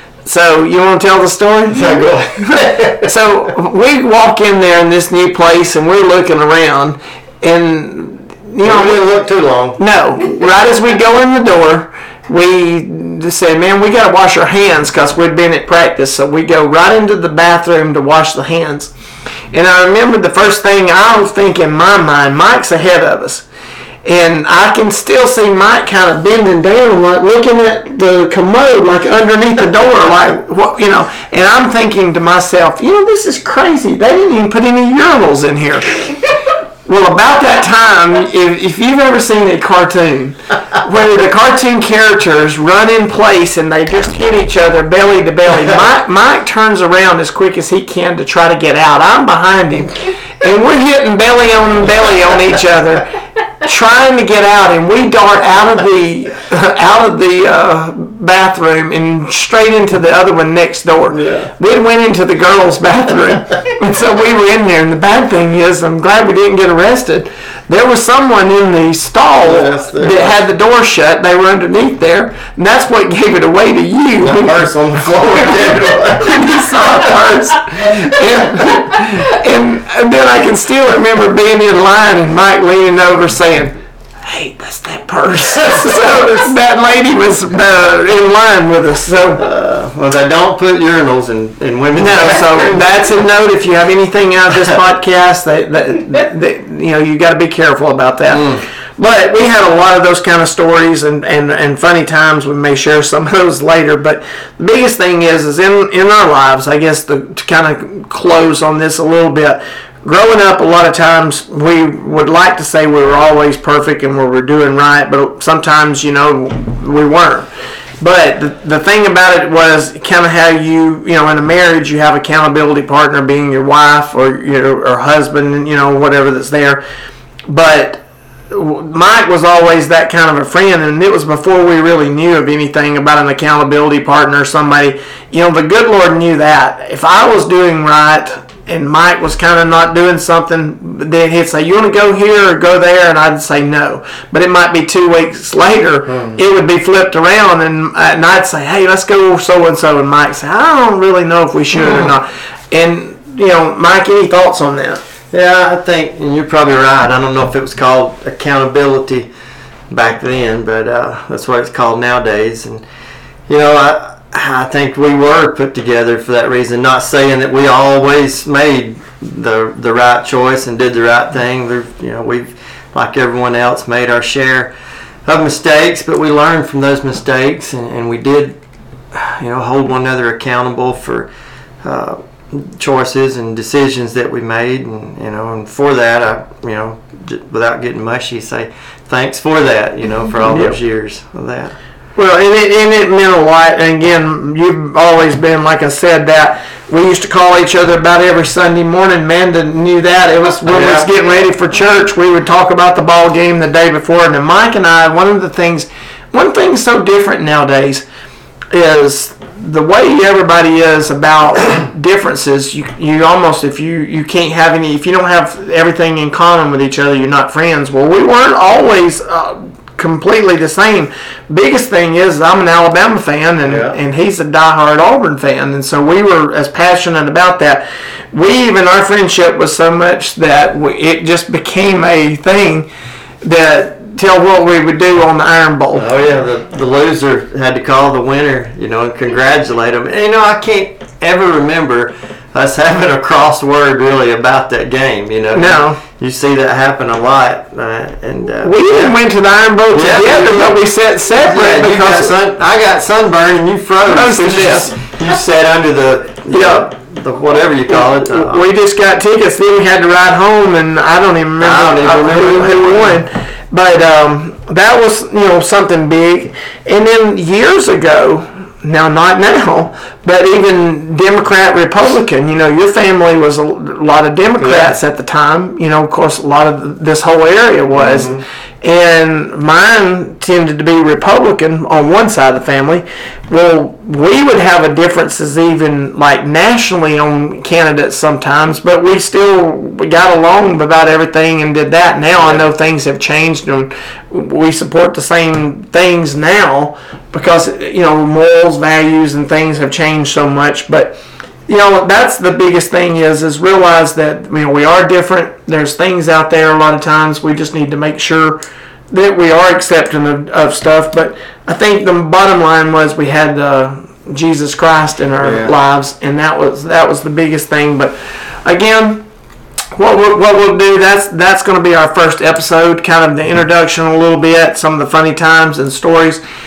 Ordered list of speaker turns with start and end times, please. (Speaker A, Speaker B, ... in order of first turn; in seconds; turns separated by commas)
Speaker A: 0.3-9.0, Speaker B: 1.7-3.1, Speaker B: 8.6-9.8, Speaker A: 9.8-18.9, Speaker A: 19.5-23.4, Speaker A: 24.1-35.9, Speaker A: 36.9-74.7, Speaker B: 61.1-61.5, Speaker B: 69.4-70.4, Speaker B: 74.2-77.0, Speaker A: 75.2-89.5, Speaker B: 89.4-92.8, Speaker A: 92.0-117.5, Speaker B: 98.3-98.6, Speaker A: 118.0-126.8, Speaker A: 127.5-155.0, Speaker B: 146.1-146.4, Speaker B: 155.3-159.3, Speaker B: 159.9-162.8, Speaker B: 163.5-174.7, Speaker B: 175.2-178.6, Speaker B: 179.1-181.3, Speaker B: 181.8-191.8, Speaker A: 190.5-190.8, Speaker A: 192.2-208.0, Speaker B: 200.7-201.1, Speaker A: 208.7-232.9, Speaker B: 223.6-224.0, Speaker A: 233.4-236.1, Speaker B: 235.9-249.2, Speaker A: 245.5-246.0, Speaker A: 248.6-252.3, Speaker B: 249.9-250.8, Speaker B: 251.3-258.6, Speaker A: 254.1-255.0, Speaker A: 256.5-256.9, Speaker A: 257.9-308.6, Speaker B: 261.6-263.2, Speaker B: 274.6-275.0, Speaker B: 277.9-278.4, Speaker A: 309.1-319.3, Speaker B: 315.4-315.8, Speaker A: 319.9-326.4